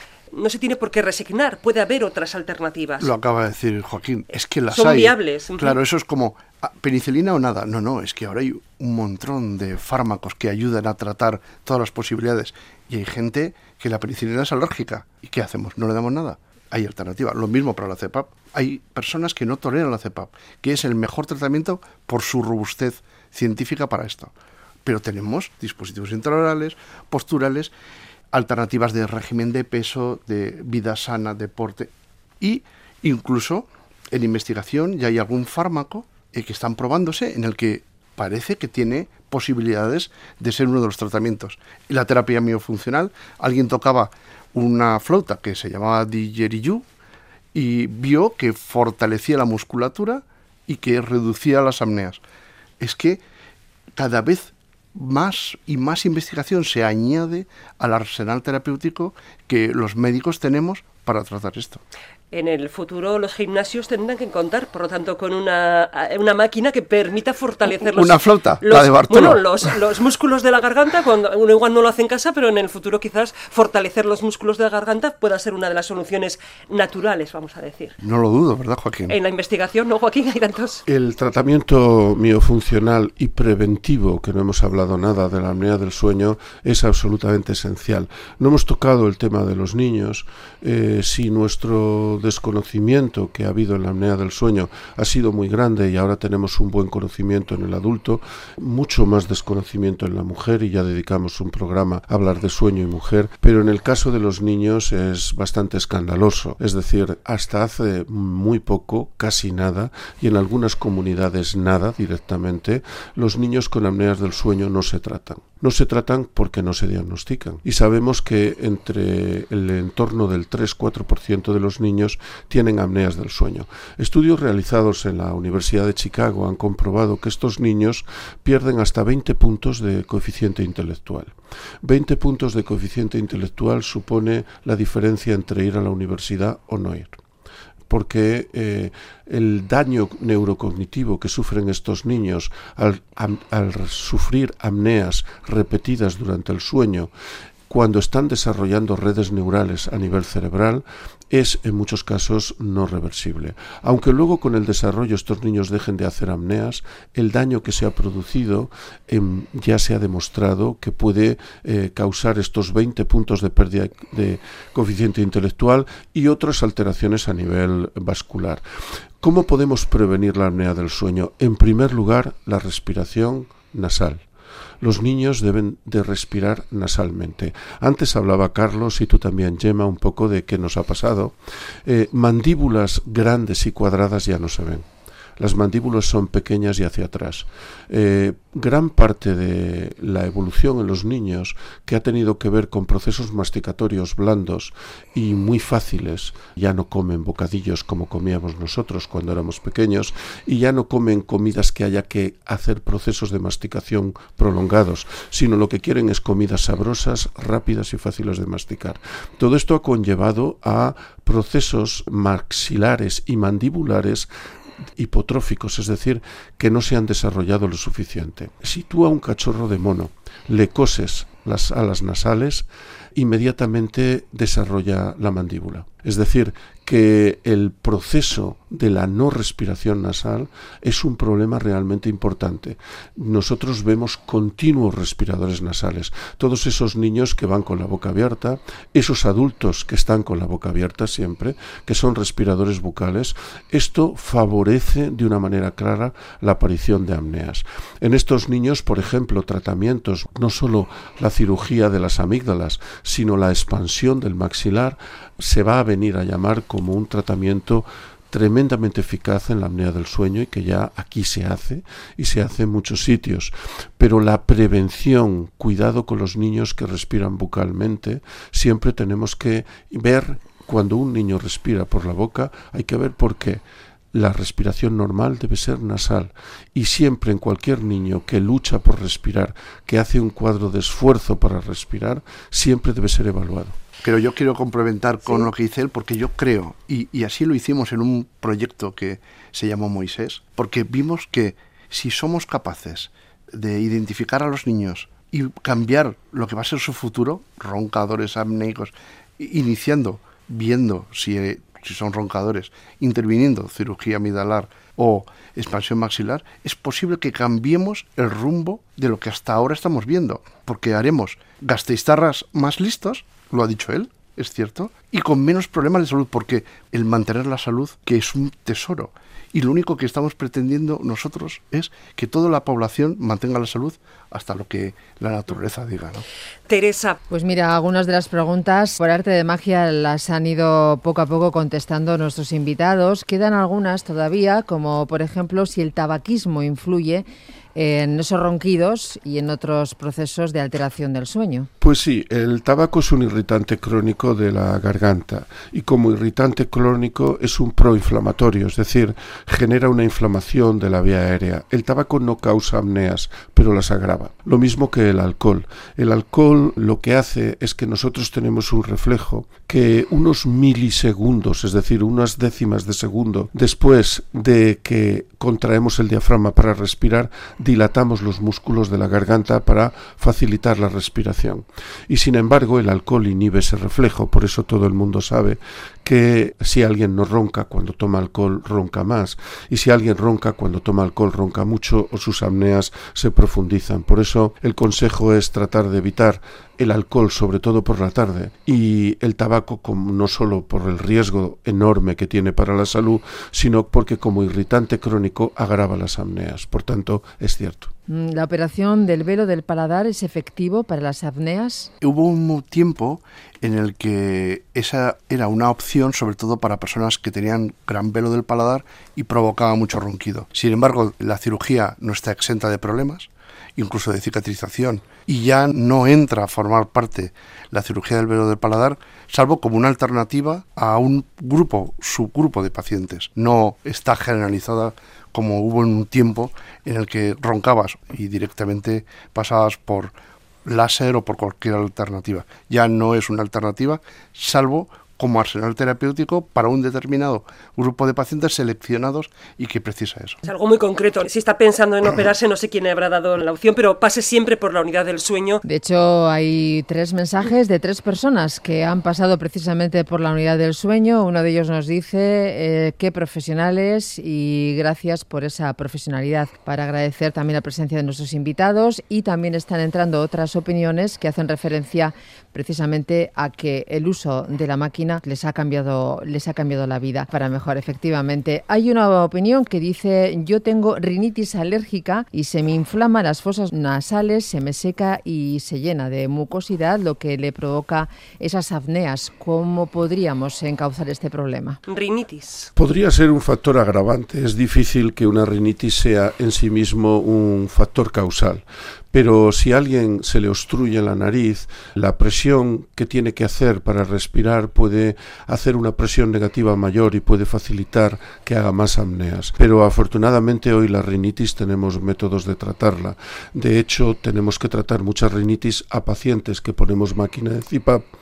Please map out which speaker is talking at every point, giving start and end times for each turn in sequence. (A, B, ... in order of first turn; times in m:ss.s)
0:00.3-0:03.1 A
0:03.0-0:24.3 B
0:04.7-0:05.7 A
0:24.8-0:27.7 B
0:28.3-0:46.8 B
0:47.5-0:52.2 B
0:52.8-0:53.2 B
0:53.9-1:01.8 B
1:02.3-1:18.0 A
1:07.7-1:09.8 B
1:18.0-1:19.2 B
1:19.1-1:20.8 A
1:20.9-2:11.3 C
2:11.8-2:17.2 C
2:17.9-2:27.1 C
2:27.7-2:48.6 C
2:49.2-2:54.2 C
2:54.8-3:01.3 C
3:01.8-3:04.8 C
3:05.4-3:34.3 C
3:35.0-4:33.6 C
4:34.1-4:43.7 C
4:44.0-5:26.2 B
5:26.7-5:27.2 A
5:27.3-5:41.7 D
5:41.8-6:37.9 C
6:38.1-6:41.9 D
6:42.0-7:10.1 B
7:10.6-7:20.4 B
7:20.4-7:25.6 A
7:25.6-8:01.8 D
8:01.9-8:02.7 A
8:02.8-8:28.0 C